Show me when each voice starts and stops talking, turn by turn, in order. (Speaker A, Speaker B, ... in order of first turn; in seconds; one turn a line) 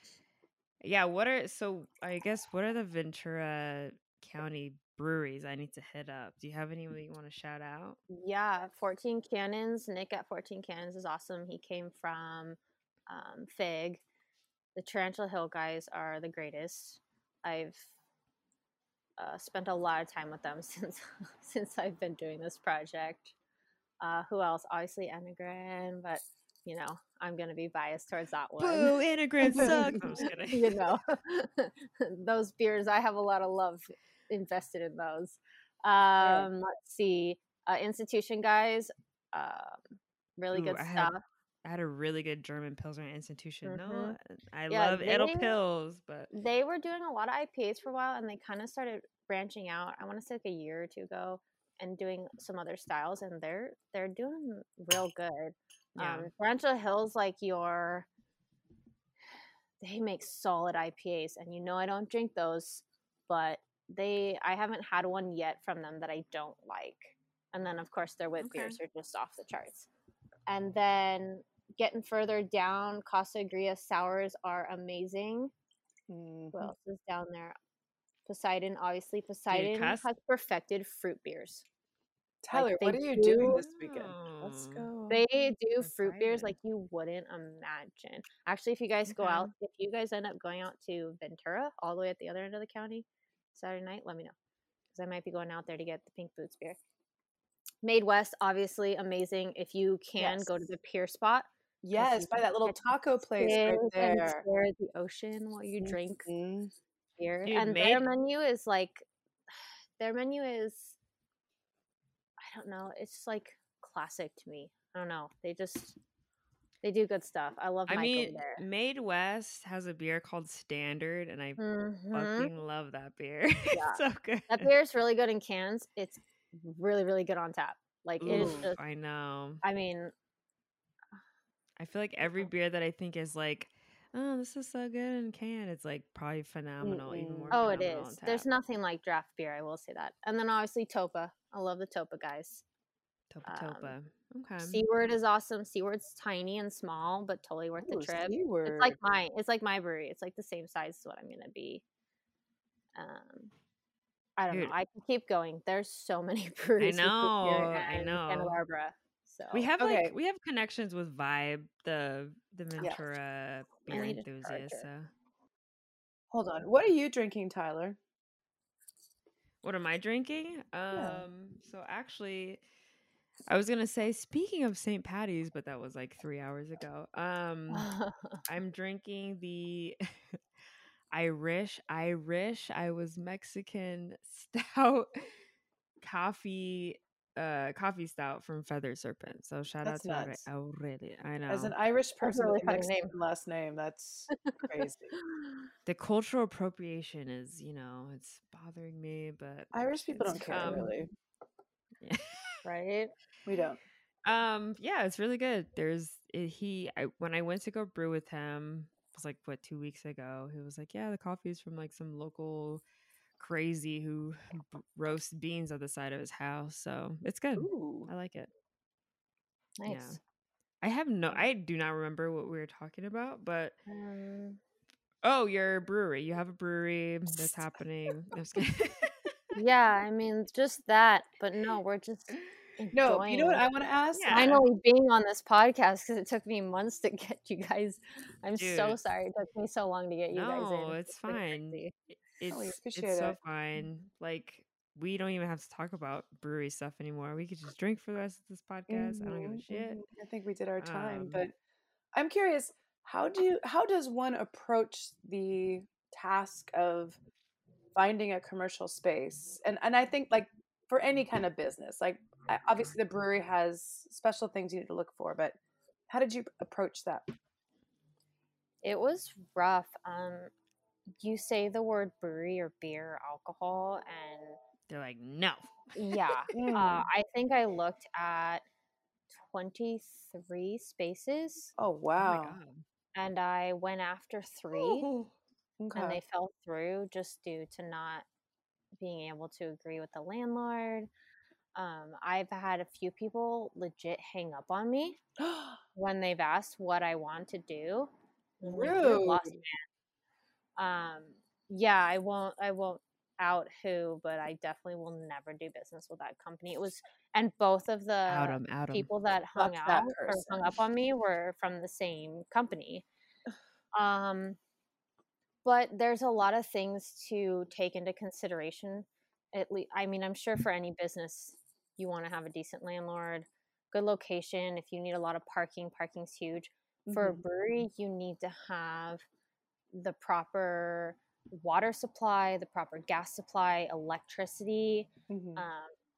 Speaker A: 0.8-8.0
Speaker B: 8.1-14.0
Speaker B: 14.8-17.9
Speaker B: 19.2-23.3
Speaker B: 24.0-41.2
Speaker A: 28.6-30.9
Speaker C: 29.6-30.1
Speaker C: 36.2-36.5
Speaker A: 40.5-41.1
Speaker A: 41.6-46.3
Speaker B: 43.6-44.1
Speaker B: 44.7-45.6
Speaker B: 46.3-58.1
Speaker A: 56.0-56.3
Speaker B: 59.8-69.9
Speaker A: 68.4-68.8
Speaker B: 70.5-75.5
Speaker C: 76.1-76.7
Speaker B: 76.5-77.6
Speaker B: 78.2-81.6
Speaker A: 79.5-80.0
Speaker C: 82.4-85.2
Speaker B: 82.5-83.6
Speaker A: 83.4-84.9
Speaker B: 85.1-94.3
Speaker A: 85.8-86.5
Speaker A: 89.1-89.5
Speaker B: 94.9-96.8
Speaker B: 97.8-102.8
Speaker C: 100.2-100.5
Speaker C: 101.8-104.4
Speaker B: 103.3-106.3
Speaker C: 105.8-106.7
Speaker B: 107.2-111.0
Speaker A: 107.4-108.1
Speaker B: 112.4-116.0
Speaker B: 116.8-118.6
Speaker A: 117.9-124.7
Speaker B: 121.6-122.5
Speaker B: 123.7-128.8
Speaker A: 128.2-129.6
Speaker C: 128.3-128.7
Speaker B: 129.6-130.1
Speaker A: 131.8-138.5
Speaker B: 132.2-132.5
Speaker C: 136.8-137.6
Speaker B: 137.5-142.6
Speaker A: 143.3-144.8
Speaker B: 143.4-143.9
Speaker B: 144.6-151.8
Speaker C: 147.8-149.0
Speaker B: 152.9-153.5
Speaker B: 154.4-159.7
Speaker A: 156.8-158.6
Speaker A: 159.5-165.1
Speaker C: 159.8-160.1
Speaker B: 163.9-164.8
Speaker C: 166.3-168.0
Speaker A: 169.6-172.6
Speaker C: 170.9-171.2
Speaker A: 173.5-177.9
Speaker B: 177.7-178.4
Speaker A: 178.4-180.4
Speaker A: 181.1-185.1
Speaker A: 186.0-191.7
Speaker C: 189.8-190.5
Speaker C: 191.5-195.1
Speaker B: 192.2-193.1
Speaker B: 195.2-195.6
Speaker A: 195.8-200.9
Speaker C: 199.7-201.1
Speaker B: 200.5-200.9
Speaker A: 202.0-202.6
Speaker B: 202.6-203.1
Speaker C: 203.4-203.8
Speaker A: 204.2-212.8
Speaker A: 213.4-218.5
Speaker C: 217.6-218.1
Speaker B: 219.8-220.2
Speaker A: 219.8-220.2
Speaker A: 220.8-223.8
Speaker B: 223.9-224.6
Speaker A: 225.2-229.3
Speaker C: 227.3-227.6
Speaker B: 229.5-233.6
Speaker C: 232.9-234.6
Speaker A: 234.1-234.6
Speaker B: 234.3-241.9
Speaker A: 238.6-239.0
Speaker A: 240.3-250.0
Speaker C: 242.5-243.4
Speaker C: 248.9-251.5
Speaker A: 250.8-251.4
Speaker C: 252.1-257.2
Speaker C: 257.9-265.6
Speaker C: 266.1-267.3
Speaker B: 268.8-270.5
Speaker B: 271.2-274.6
Speaker A: 274.9-276.4
Speaker B: 275.9-278.6
Speaker C: 276.5-277.1
Speaker B: 279.3-281.7
Speaker C: 281.8-282.6
Speaker A: 282.2-282.8
Speaker B: 283.1-285.1
Speaker A: 284.7-285.3
Speaker C: 285.8-286.2
Speaker B: 285.9-288.2
Speaker B: 289.0-291.1
Speaker B: 291.7-295.2
Speaker C: 295.4-295.8
Speaker B: 295.9-299.8
Speaker C: 298.6-299.6
Speaker B: 300.8-313.1
Speaker A: 308.3-309.1
Speaker C: 309.6-310.8
Speaker B: 313.9-314.6
Speaker B: 315.6-329.2
Speaker C: 327.1-327.4
Speaker B: 329.9-335.9
Speaker C: 335.3-335.6